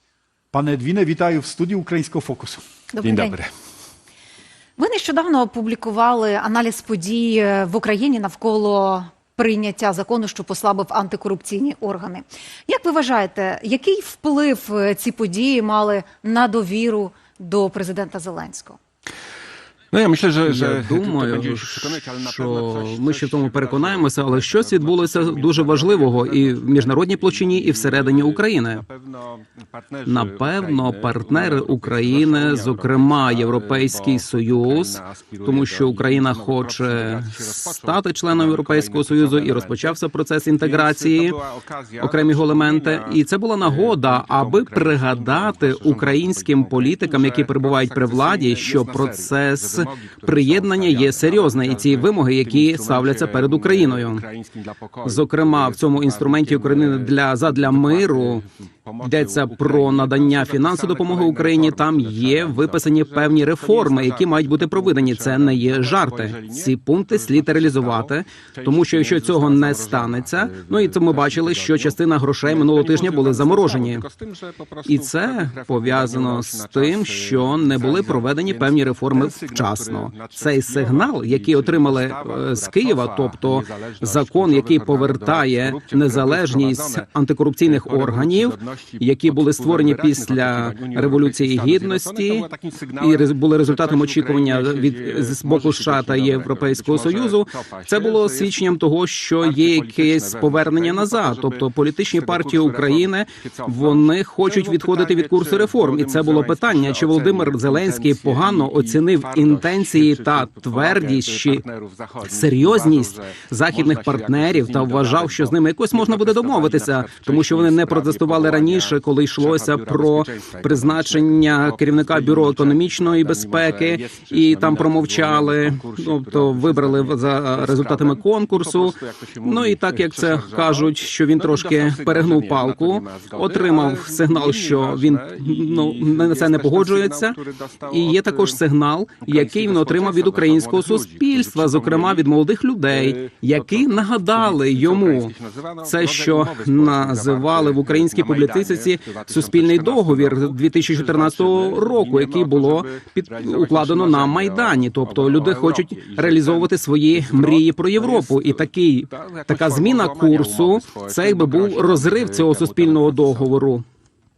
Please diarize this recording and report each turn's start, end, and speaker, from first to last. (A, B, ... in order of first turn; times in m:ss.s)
0:00.5-0:02.6 A
0:02.9-0:03.4 B
0:03.0-0:03.5 C
0:04.8-0:18.8 B
0:19.9-0:40.0 C
0:20.4-0:28.8 D
0:30.1-0:41.4 D
0:40.5-1:27.1 C
0:42.0-0:54.2 D
0:55.0-0:58.4 D
0:59.0-1:14.0 D
1:14.8-1:32.5 D
1:27.6-1:38.7 C
1:33.0-1:51.6 D
1:39.4-2:18.6 C
1:52.2-2:25.3 D
2:19.2-2:22.4 C
2:22.9-2:43.6 C
2:25.8-2:43.8 D